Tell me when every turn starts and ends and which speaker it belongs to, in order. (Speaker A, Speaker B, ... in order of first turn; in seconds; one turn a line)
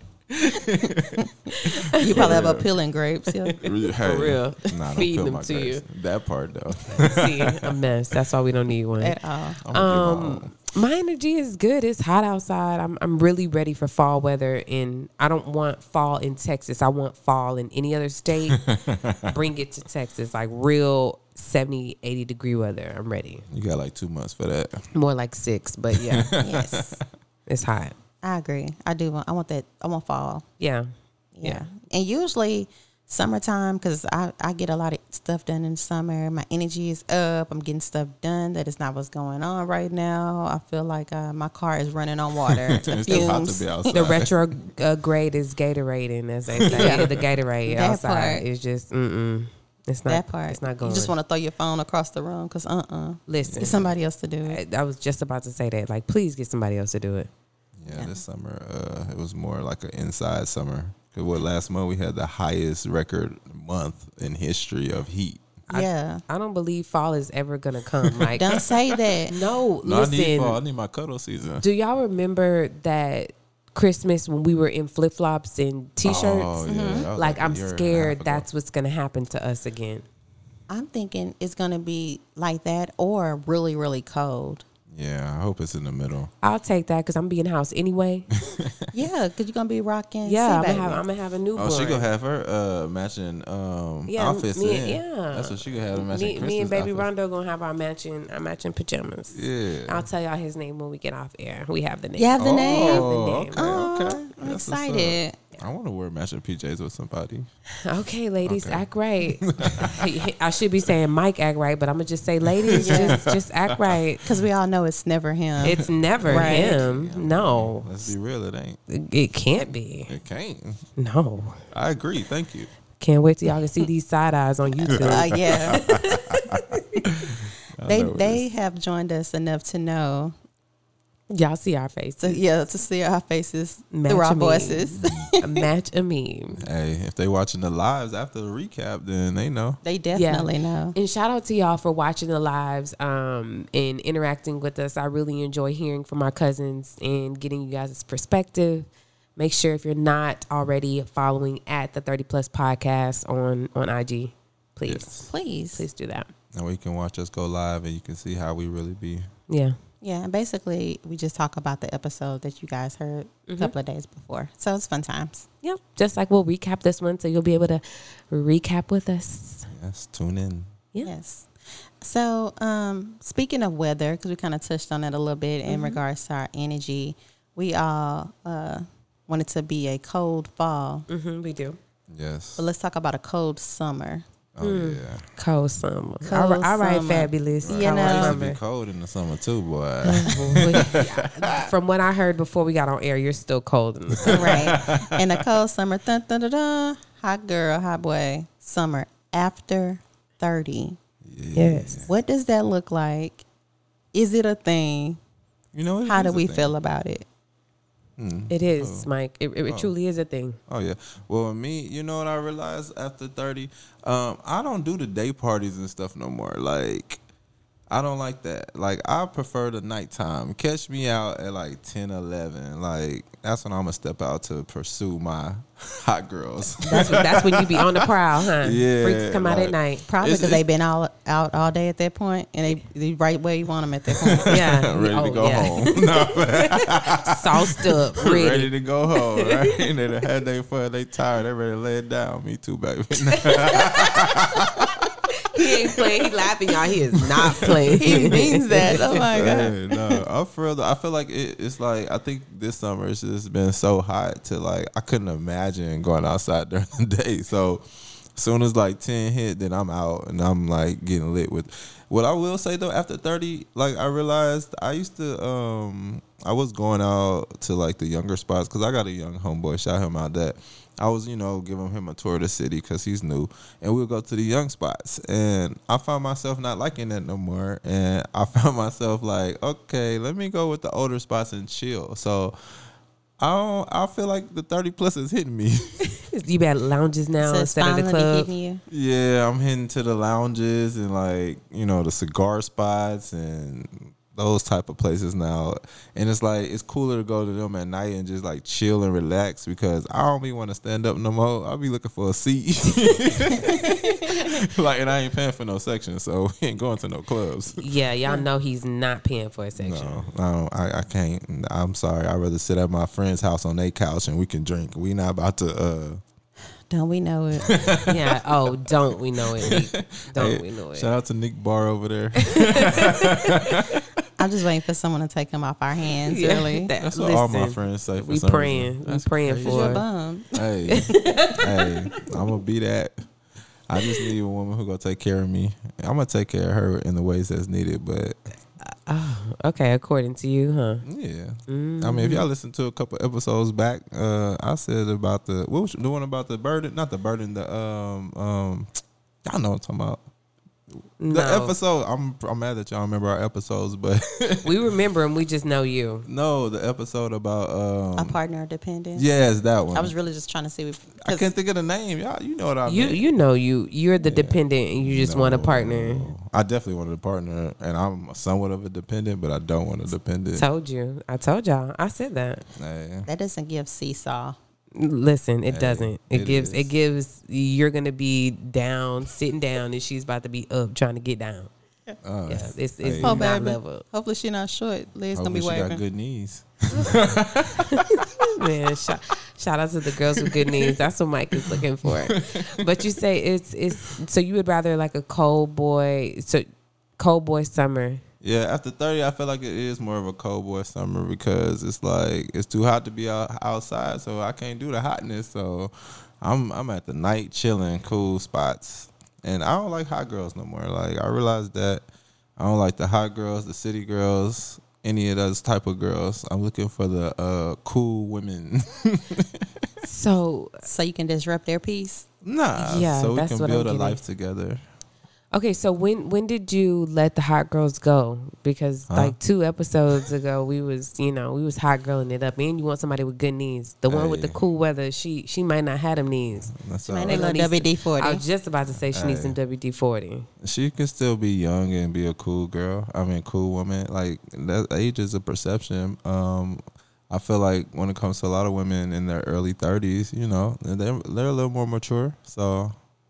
Speaker A: 0.3-2.7
Speaker B: 1.5-2.5
Speaker C: 2.0-3.6
Speaker B: 3.5-5.8
Speaker A: 3.6-7.7
Speaker B: 6.8-18.6
Speaker C: 9.0-9.6
Speaker A: 9.6-10.5
Speaker A: 18.5-19.5
Speaker B: 19.2-23.4
Speaker A: 23.5-24.8
Speaker B: 24.9-26.4
Speaker A: 25.9-27.0
Speaker C: 26.4-27.0
Speaker B: 27.5-27.9
Speaker C: 28.2-30.4
Speaker B: 30.6-30.9
Speaker C: 31.3-43.9
Speaker A: 42.5-44.3
Speaker B: 43.9-51.1
Speaker A: 46.6-47.1
Speaker C: 46.7-47.1
Speaker C: 47.6-48.4
Speaker C: 50.1-54.6
Speaker B: 53.3-53.9
Speaker A: 53.4-53.9
Speaker B: 54.4-57.3
Speaker A: 57.8-65.5
Speaker C: 57.9-58.2
Speaker B: 65.7-68.6
Speaker C: 65.7-66.2
Speaker A: 68.1-69.0
Speaker C: 68.3-69.3
Speaker B: 69.3-70.6
Speaker A: 69.8-71.6
Speaker B: 71.6-76.5
Speaker A: 76.0-78.5
Speaker C: 76.7-77.1
Speaker B: 77.2-80.0
Speaker C: 80.7-84.7
Speaker A: 84.9-86.3
Speaker B: 86.4-88.3
Speaker A: 88.5-88.7
Speaker C: 88.9-91.0
Speaker B: 90.2-92.0
Speaker A: 91.5-97.1
Speaker B: 94.1-103.9
Speaker A: 99.3-100.1
Speaker C: 102.2-105.4
Speaker A: 102.4-107.5
Speaker B: 107.8-114.2
Speaker A: 108.4-108.8
Speaker A: 109.4-110.0
Speaker A: 112.6-113.9
Speaker C: 112.8-113.2
Speaker C: 114.2-116.8
Speaker B: 115.6-118.1
Speaker A: 115.6-118.8
Speaker B: 118.9-120.1
Speaker A: 120.1-120.8
Speaker B: 121.0-121.6
Speaker A: 121.7-122.7
Speaker B: 123.0-127.0
Speaker A: 124.9-128.4
Speaker C: 125.0-125.8
Speaker C: 127.8-130.3
Speaker B: 131.3-132.4
Speaker C: 132.2-135.6
Speaker B: 133.9-136.6
Speaker A: 135.0-135.3
Speaker A: 136.6-139.8
Speaker C: 139.8-140.9
Speaker B: 140.1-155.2
Speaker A: 154.8-155.3
Speaker C: 155.3-155.8
Speaker B: 155.7-156.3
Speaker A: 156.5-159.3
Speaker B: 159.5-159.8
Speaker C: 160.0-165.5
Speaker B: 163.5-163.7
Speaker B: 165.6-169.7
Speaker A: 169.7-170.7
Speaker C: 171.0-171.5
Speaker C: 172.0-181.1
Speaker B: 175.7-176.0
Speaker B: 181.1-181.8
Speaker A: 182.1-182.6
Speaker C: 182.6-184.2
Speaker A: 184.6-185.2
Speaker B: 184.6-188.6
Speaker C: 186.2-188.4
Speaker A: 187.6-191.7
Speaker B: 190.0-194.6
Speaker A: 194.1-195.5
Speaker C: 194.2-201.0
Speaker A: 201.2-202.1
Speaker B: 201.5-202.1
Speaker C: 202.1-203.4
Speaker C: 204.1-205.2
Speaker A: 205.7-206.7
Speaker C: 206.1-207.2
Speaker A: 208.2-209.1
Speaker B: 208.5-210.6
Speaker A: 210.7-217.2
Speaker A: 217.9-230.6
Speaker B: 226.8-230.1
Speaker C: 226.8-227.2
Speaker C: 230.1-234.6
Speaker A: 234.2-282.6
Speaker B: 234.4-239.8
Speaker B: 243.3-244.2
Speaker B: 245.3-249.2
Speaker C: 247.9-250.2
Speaker A: 283.4-286.1
Speaker B: 286.2-288.5
Speaker C: 287.4-288.8
Speaker A: 288.9-307.8
Speaker C: 303.9-304.4
Speaker B: 307.8-310.2
Speaker A: 309.8-316.2
Speaker C: 316.9-317.8
Speaker A: 317.6-318.9
Speaker B: 318.1-321.1
Speaker A: 319.6-324.0
Speaker B: 322.5-324.0
Speaker C: 324.4-326.9
Speaker B: 326.3-330.0
Speaker A: 327.0-333.3
Speaker C: 329.6-331.5
Speaker B: 330.9-331.6
Speaker A: 333.9-338.5
Speaker B: 338.8-341.0
Speaker A: 341.0-350.2
Speaker B: 341.7-342.4
Speaker A: 350.9-354.7
Speaker B: 351.2-351.7
Speaker B: 354.6-356.2
Speaker A: 356.2-358.4
Speaker C: 358.2-359.3
Speaker A: 359.1-360.1
Speaker C: 359.9-361.5
Speaker A: 361.2-363.2
Speaker B: 362.9-366.3
Speaker A: 364.2-370.7
Speaker B: 370.5-372.6
Speaker A: 372.7-373.3
Speaker C: 373.3-374.6
Speaker B: 374.9-381.7
Speaker A: 375.7-376.9
Speaker A: 382.2-383.5
Speaker B: 382.5-384.0
Speaker C: 383.2-386.0
Speaker A: 385.3-388.2
Speaker B: 387.0-396.7
Speaker A: 390.4-391.0
Speaker A: 391.6-392.9
Speaker B: 397.2-398.2
Speaker A: 398.4-412.0
Speaker A: 412.6-419.9
Speaker B: 420.0-420.8
Speaker C: 420.8-422.3
Speaker A: 422.4-424.8
Speaker B: 422.8-424.2
Speaker B: 425.5-436.7
Speaker A: 429.1-429.4
Speaker A: 434.1-434.6
Speaker A: 436.7-437.4
Speaker C: 437.0-438.4
Speaker B: 437.3-440.5
Speaker A: 439.1-439.6
Speaker A: 440.6-452.9